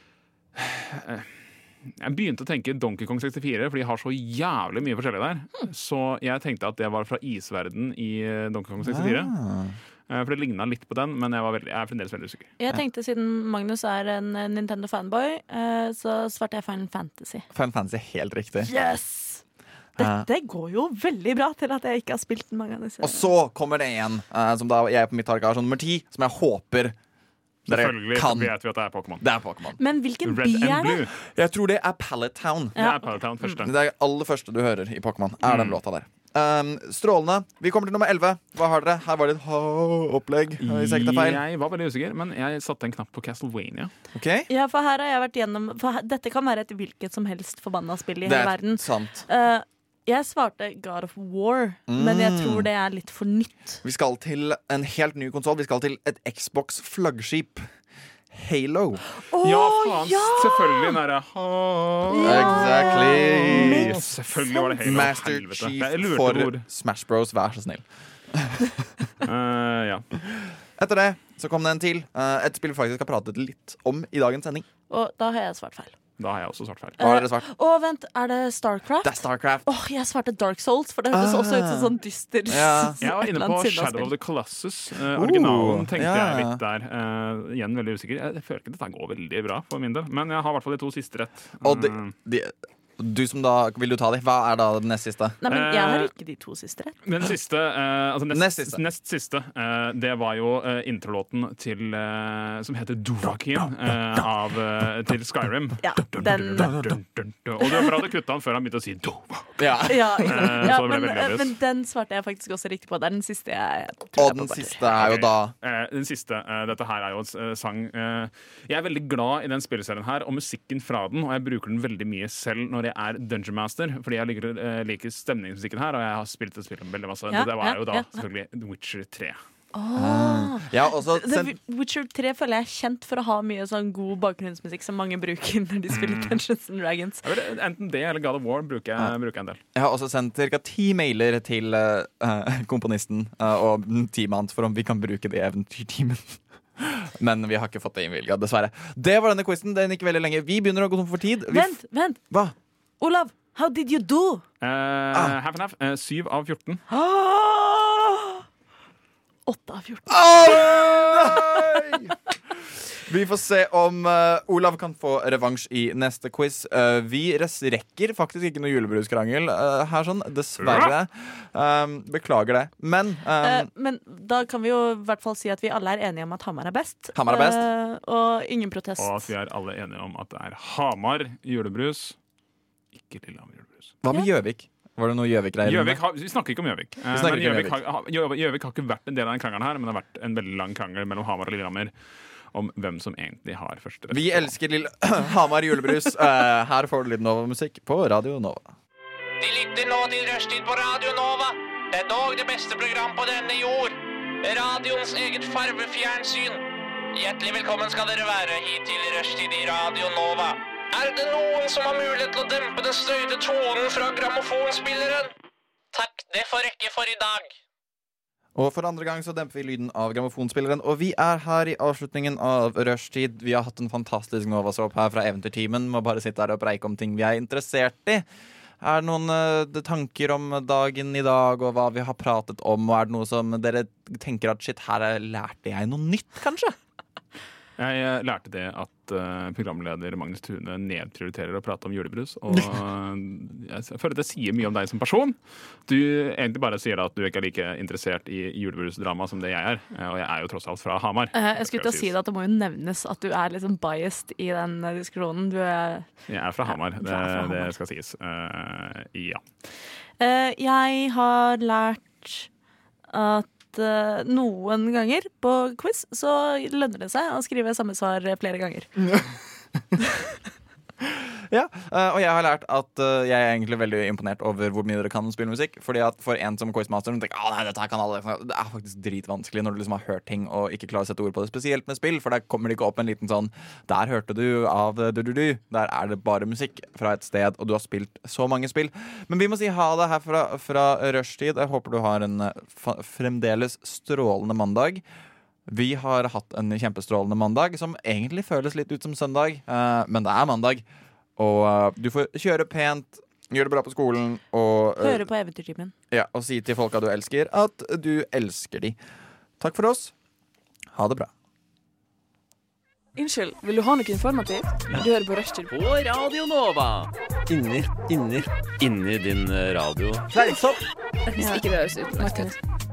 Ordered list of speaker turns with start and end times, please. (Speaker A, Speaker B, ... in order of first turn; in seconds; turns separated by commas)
Speaker A: 0.6-9.3, Speaker B: 8.8-9.8, Speaker A: 10.1-12.5, Speaker C: 12.6-17.5, Speaker B: 17.5-18.7, Speaker C: 18.7-19.4, Speaker C: 20.0-23.3, Speaker B: 20.0-20.3, Speaker B: 23.0-27.0, Speaker A: 27.7-29.2, Speaker B: 27.7-28.5, Speaker B: 29.2-29.8, Speaker C: 29.8-31.1, Speaker A: 30.2-31.1, Speaker B: 31.2-32.8, Speaker C: 32.8-33.6, Speaker A: 32.8-33.7, Speaker B: 33.6-41.4, Speaker A: 35.4-35.8, Speaker A: 40.6-43.9, Speaker B: 44.1-44.5, Speaker C: 44.5-53.8, Speaker B: 48.2-49.2, Speaker B: 51.9-52.7, Speaker B: 53.8-57.7, Speaker B: 58.3-59.0, Speaker C: 59.1-61.0, Speaker A: 59.4-66.7, Speaker C: 62.1-64.8, Speaker B: 62.2-64.0, Speaker B: 64.8-68.8, Speaker A: 69.2-70.1, Speaker B: 70.8-74.7, Speaker C: 74.9-76.0, Speaker A: 76.2-77.0, Speaker B: 77.0-77.5, Speaker C: 77.0-84.1, Speaker B: 79.0-79.7, Speaker B: 81.1-82.0, Speaker B: 82.5-83.0, Speaker A: 83.0-92.1, Speaker B: 85.1-86.6, Speaker B: 91.6-95.4, Speaker C: 95.4-97.0, Speaker A: 95.5-96.1, Speaker A: 97.1-109.6, Speaker B: 98.3-98.8, Speaker C: 105.8-106.7, Speaker B: 106.6-107.0, Speaker B: 109.6-110.7, Speaker C: 109.9-114.9, Speaker A: 110.2-111.5, Speaker B: 114.2-115.5, Speaker A: 115.0-129.4, Speaker C: 127.3-128.2, Speaker C: 129.7-137.2, Speaker B: 129.9-131.5, Speaker A: 135.9-136.4, Speaker A: 137.2-139.6, Speaker B: 139.8-151.8, Speaker C: 151.5-152.2, Speaker B: 152.3-152.6, Speaker C: 153.0-154.4, Speaker A: 154.6-156.8, Speaker C: 156.9-158.4, Speaker C: 159.5-161.4, Speaker B: 160.1-162.1, Speaker B: 162.9-173.7, Speaker A: 170.6-170.9, Speaker C: 173.4-179.3, Speaker B: 177.2-177.6, Speaker A: 179.0-182.2, Speaker A: 182.9-183.9, Speaker B: 184.0-186.0, Speaker A: 185.7-191.9, Speaker B: 187.1-187.8, Speaker A: 192.5-194.5, Speaker B: 194.1-198.7, Speaker D: 199.4-215.3, Speaker D: 215.9-217.5, Speaker B: 218.6-228.2, Speaker B: 228.8-236.7, Speaker A: 237.8-252.1, Speaker C: 251.3-256.1, Speaker A: 256.3-259.4, Speaker C: 256.6-257.7, Speaker C: 260.2-262.5, Speaker C: 263.1-268.9, Speaker B: 271.0-295.0, Speaker B: 295.7-300.9, Speaker B: 301.4-305.2, Speaker C: 305.0-305.9, Speaker B: 306.1-309.0, Speaker B: 309.6-310.1, Speaker B: 310.9-311.3, Speaker E: 313.1-315.7, Speaker F: 315.7-320.3, Speaker B: 320.3-320.9, Speaker E: 321.3-322.6